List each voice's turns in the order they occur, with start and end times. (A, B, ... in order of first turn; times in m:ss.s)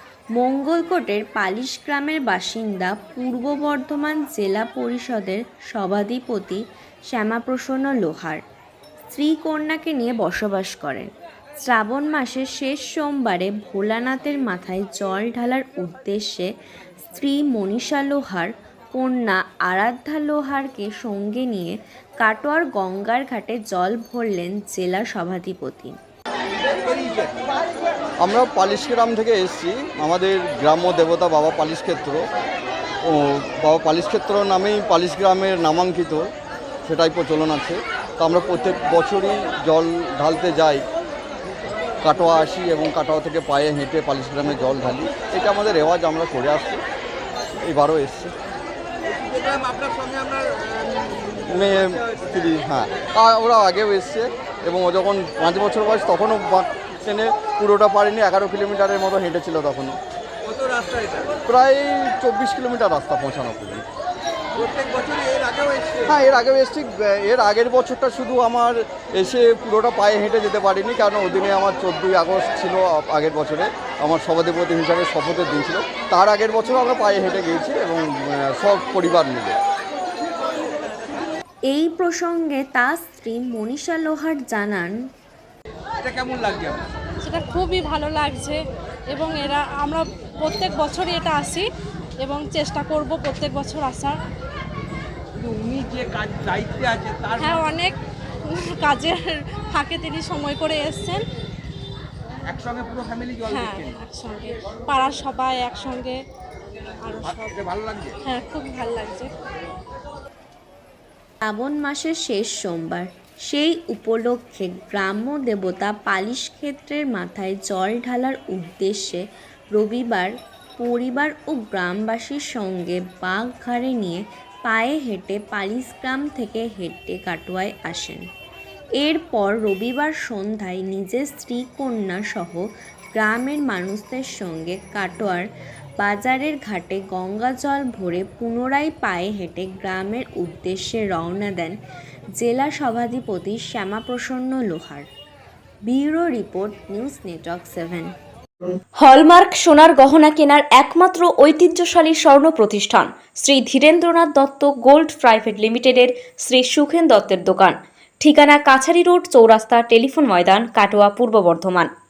0:00.4-0:08.4 A
0:09.1-0:11.1 A
0:11.6-0:16.5 A
0:17.1-0:26.0 A
0:26.8-0:27.3 B
0:28.2-0:32.3 C
0:33.0-0:36.3 C
0:36.9-0:40.8 C
0:42.0-0:46.8 C
0:47.6-0:48.3 C
0:49.0-0:51.4 B
0:51.5-1:00.0 C
1:00.5-1:01.4 B
1:01.5-1:03.8 C
1:04.6-1:06.1 B
1:06.1-1:19.6 C
1:21.7-1:24.9 A
1:26.0-1:26.9 B
1:27.2-1:28.6 D
1:29.1-1:31.7 D
1:32.2-1:34.2 D
1:35.4-1:37.5 B
1:37.4-1:41.2 D
1:42.5-1:43.7 B
1:43.5-1:46.2 D
1:47.0-1:47.6 D
1:47.7-1:48.1 B
1:48.2-1:49.3 D
1:51.4-2:08.3 A
2:09.0-2:15.4 A
2:16.0-2:21.8 A
2:22.4-2:25.1 A
2:25.9-2:28.1 A
2:29.0-2:41.9 E